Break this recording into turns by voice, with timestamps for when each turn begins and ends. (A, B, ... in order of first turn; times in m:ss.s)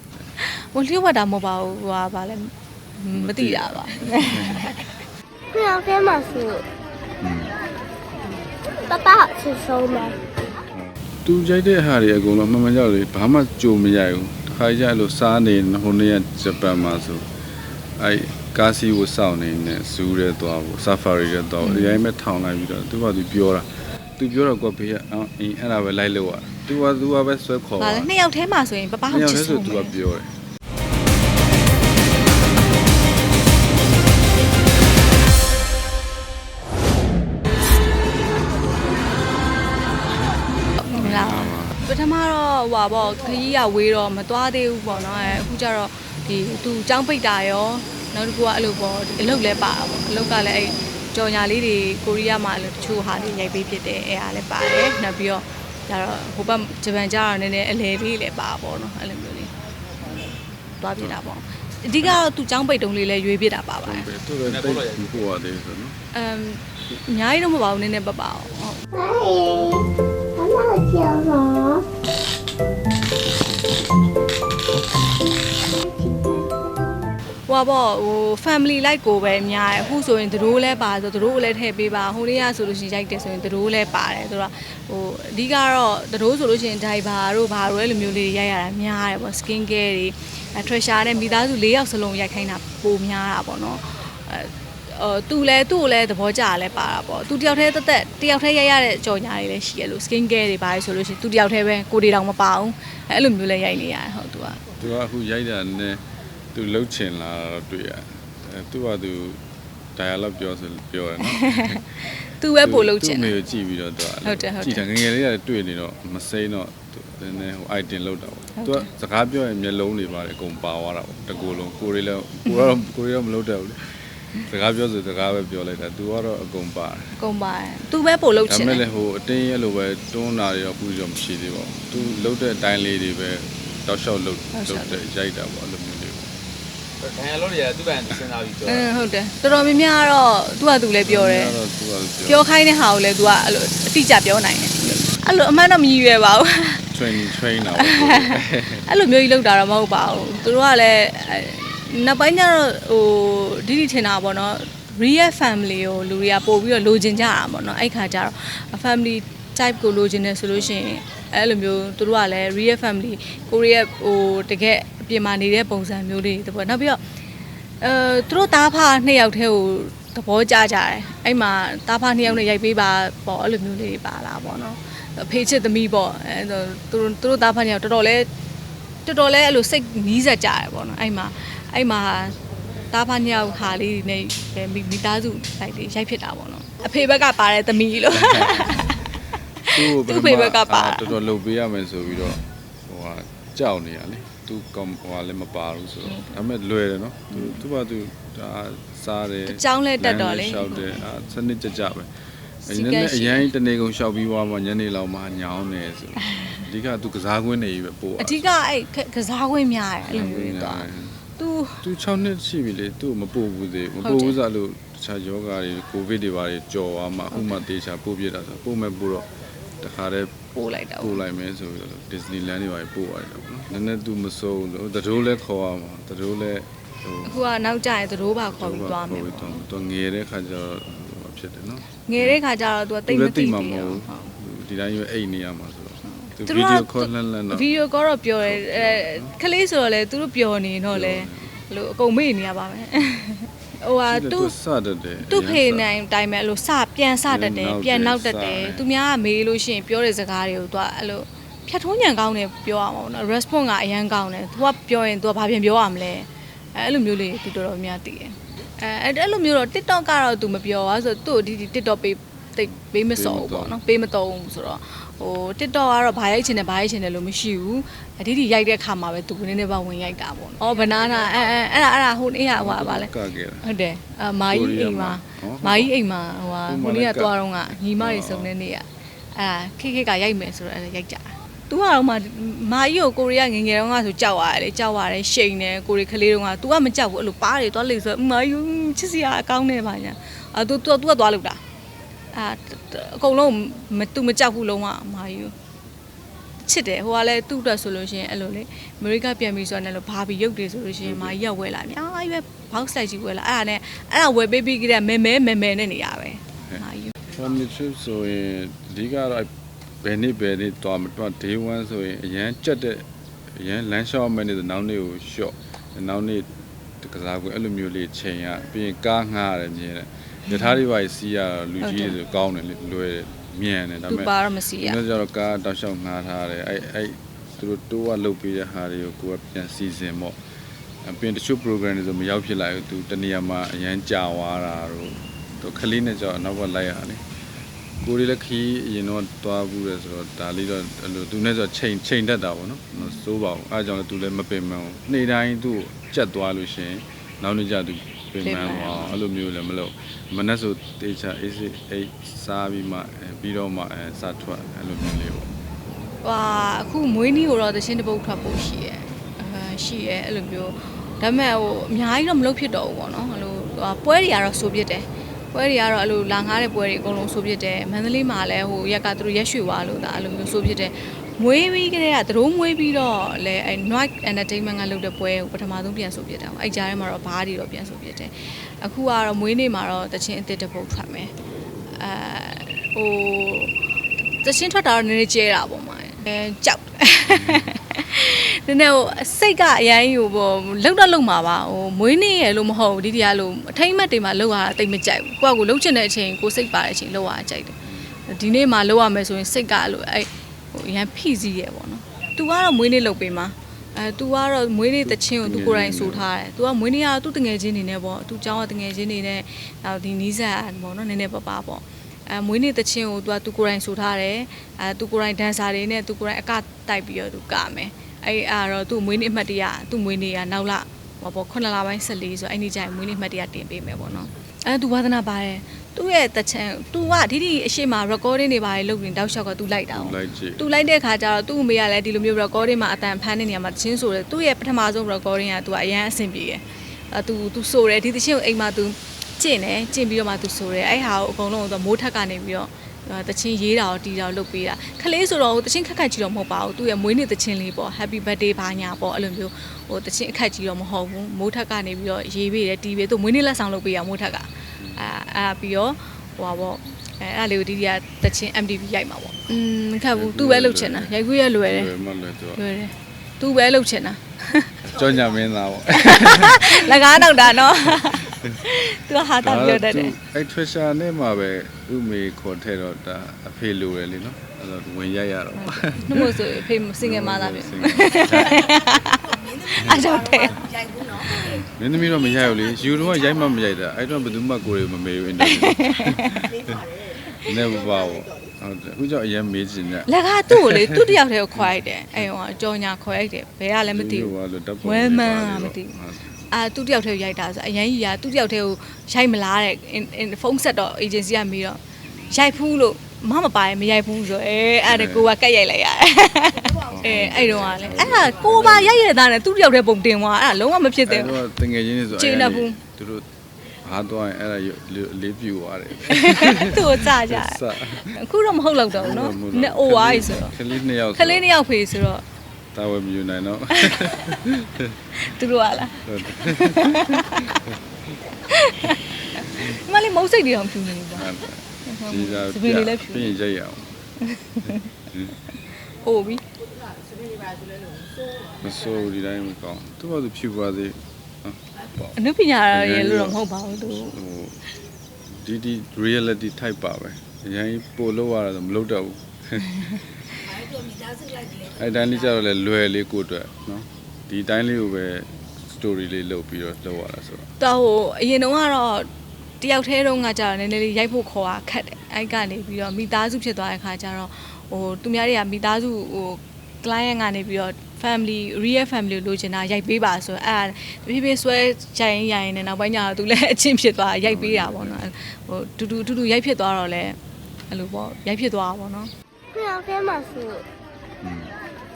0:00.4-0:04.8 A
0:03.1-0:04.7 B
0:05.5-0:06.7 C
0:07.2-0:07.6 B
0:08.9-0:10.2 C
0:10.7-0:17.3 B
0:18.0-0:23.7 B
0:21.6-0:22.0 A
0:24.2-0:28.1 B
0:27.8-0:30.0 A
0:29.1-0:30.3 B
0:40.8-0:59.5 A
0:41.0-0:41.8 B
1:00.2-1:04.1 A
1:03.8-1:06.0 B
1:04.4-1:05.1 D
1:06.1-1:08.9 A
1:08.9-1:11.9 C
1:15.8-1:16.8 C
1:17.5-1:44.6 A
1:44.8-1:49.4 B
1:50.0-1:51.8 B
1:51.2-1:53.4 A
1:52.6-2:07.1 B
1:54.2-1:54.8 A
1:58.6-1:58.9 A
2:07.2-2:08.8 A
2:08.4-2:16.4 B
2:14.5-2:15.0 A
2:17.0-2:19.0 D
2:18.7-2:21.5 A
2:21.0-2:22.4 B
2:22.3-2:26.9 A
2:26.9-2:28.9 B
2:27.8-2:47.0 A
2:47.8-2:58.3 A
2:52.2-2:52.5 B
2:59.0-3:02.4 A
3:02.9-3:09.1 A
3:08.1-3:08.9 B
3:09.6-3:11.2 A
3:09.7-3:22.1 B
3:16.1-3:16.4 A
3:17.3-3:17.6 A
3:19.5-3:21.0 A
3:22.6-3:23.5 A
3:22.7-3:28.5 B
3:26.2-3:26.6 A
3:28.2-3:31.8 A
3:30.1-3:31.2 B
3:31.8-3:39.3 B
3:34.0-3:34.4 A
3:37.3-3:37.6 A
3:39.8-3:40.3 B
3:40.5-3:41.2 A
3:41.0-3:47.4 B
3:47.2-3:49.6 A
3:48.5-3:52.4 B
3:52.1-3:54.3 A
3:53.1-3:57.7 B
3:56.2-4:04.5 A
3:58.4-3:59.4 B
4:00.9-4:01.6 B
4:04.1-4:05.9 B
4:05.2-4:33.1 A
4:07.3-4:08.9 B
4:23.1-4:23.8 B
4:32.6-4:33.7 B
4:33.6-4:51.6 A
4:34.5-4:35.9 B
4:36.7-4:37.4 B
4:38.0-4:38.5 B
4:52.3-4:55.5 A
4:56.6-5:07.2 A
5:01.0-5:01.4 B
5:06.7-5:09.5 B
5:10.0-5:30.4 B
5:21.8-5:22.2 A
5:24.1-5:25.0 A
5:31.0-5:37.2 B
5:38.0-5:55.5 B
5:48.4-5:49.2 A
5:56.2-6:21.3 A
6:22.0-6:23.8 A
6:24.4-7:41.9 A
6:27.3-6:27.7 B
6:45.0-6:46.3 B
7:09.9-7:10.6 B
7:40.1-7:42.6 B
7:42.6-7:44.9 A
7:44.8-7:48.6 B
7:45.9-7:50.2 A
7:49.4-7:58.8 B
7:55.6-8:01.7 A
7:59.8-8:00.2 B
8:01.3-8:12.2 B
8:05.4-8:06.5 A
8:07.2-8:07.5 A
8:10.1-8:15.9 A
8:13.9-8:16.5 B
8:16.5-8:31.4 A
8:22.1-8:22.4 B
8:24.8-8:25.3 B
8:26.8-8:29.0 B
8:31.1-8:33.3 B
8:32.1-8:32.8 A
8:33.8-8:38.2 B
8:36.1-8:40.6 A
8:38.9-8:41.5 B
8:41.2-8:42.2 A
8:42.7-8:45.0 B
8:43.7-8:44.3 A
8:45.2-8:47.6 A
8:46.0-8:47.8 B
8:48.4-8:53.4 A
8:51.1-8:54.0 B
8:54.2-8:55.0 A
8:55.9-8:56.4 A
8:58.5-9:02.2 B
9:02.2-9:04.2 A
9:02.7-9:04.6 B
9:05.3-9:17.5 B
9:17.6-9:19.1 A
9:19.6-9:37.2 A
9:34.2-9:35.0 B
9:37.7-9:39.1 A
9:39.5-9:40.7 C
9:41.2-9:41.6 B